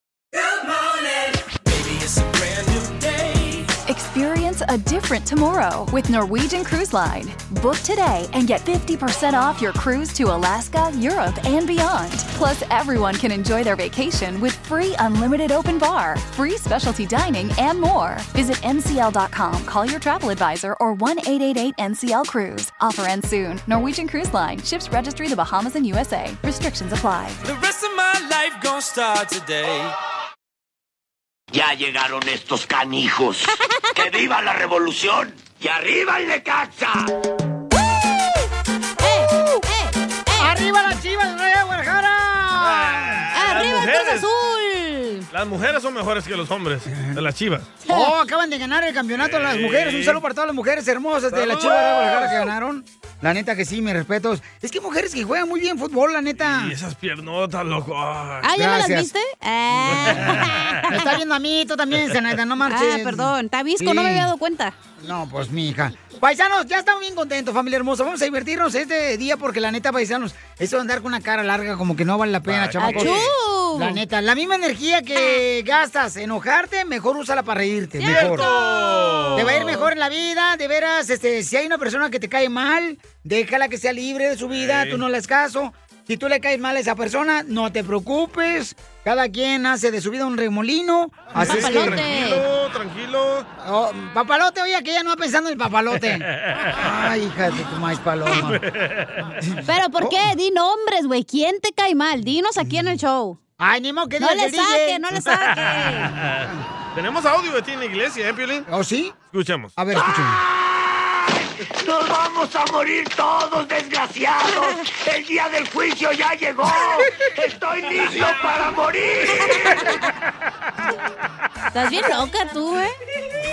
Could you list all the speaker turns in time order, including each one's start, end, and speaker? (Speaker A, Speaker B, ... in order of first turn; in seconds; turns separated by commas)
Speaker A: 0.3-3.8, Speaker B: 3.9-27.4, Speaker A: 27.4-29.9, Speaker C: 31.5-37.1, Speaker D: 39.0-40.5, Speaker E: 40.4-43.3, Speaker F: 42.6-44.3, Speaker D: 43.3-45.3, Speaker F: 45.3-47.7, Speaker D: 47.9-48.1, Speaker E: 47.9-56.7, Speaker F: 49.2-50.2, Speaker F: 51.3-52.5, Speaker F: 56.4-58.5, Speaker D: 58.4-61.1, Speaker E: 58.5-59.1, Speaker F: 59.9-60.8, Speaker E: 60.0-64.3, Speaker D: 62.6-64.8, Speaker E: 65.0-78.5, Speaker F: 72.5-73.3, Speaker D: 72.8-74.0, Speaker D: 75.2-75.4, Speaker D: 78.0-79.4, Speaker F: 78.0-79.9, Speaker E: 79.3-92.0, Speaker F: 84.5-85.0, Speaker F: 91.4-93.5, Speaker D: 91.4-92.5, Speaker E: 93.6-96.3, Speaker F: 95.9-96.8, Speaker E: 96.8-98.6, Speaker F: 98.4-99.3, Speaker E: 99.5-100.3, Speaker D: 99.7-103.4, Speaker E: 103.6-105.0, Speaker D: 104.2-106.2, Speaker F: 105.5-108.7, Speaker E: 108.7-109.2, Speaker F: 109.3-109.8, Speaker E: 109.8-110.4, Speaker C: 109.9-119.7, Speaker D: 121.7-123.0